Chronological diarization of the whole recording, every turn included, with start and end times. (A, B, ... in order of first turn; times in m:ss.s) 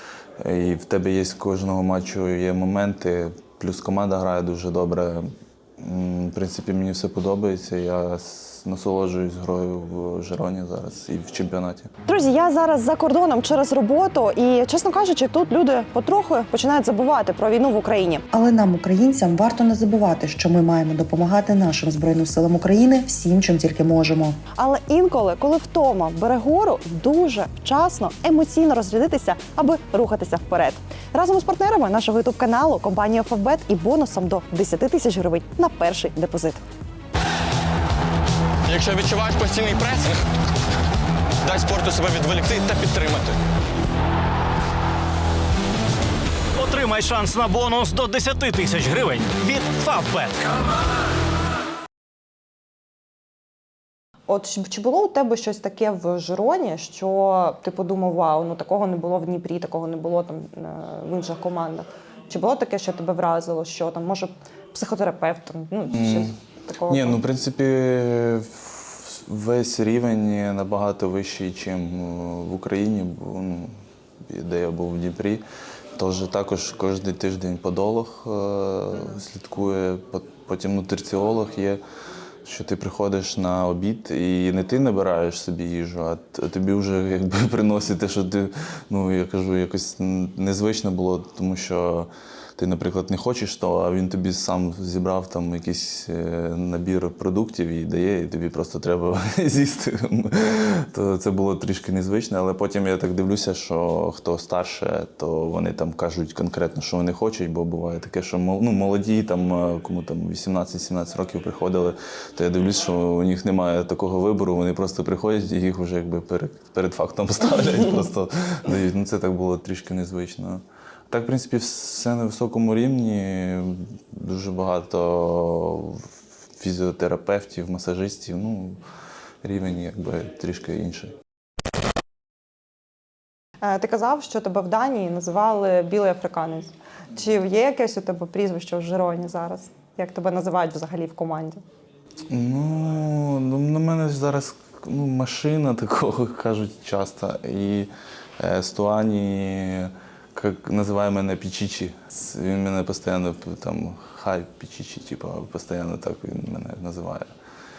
0:00.4-0:11.9 A
0:12.0-0:18.2 B
0:18.3-0:24.4 C
0:24.5-0:36.6 B
0:38.6-0:40.2 D
0:41.4-0:43.4 D
0:46.5-0:50.5 E
0:54.3-1:07.2 B
1:05.9-1:06.3 A
1:06.9-1:15.4 A
1:16.0-1:21.8 A
1:22.4-2:08.8 A
2:09.4-2:11.2 A
2:13.6-2:21.6 B
2:22.3-2:37.3 A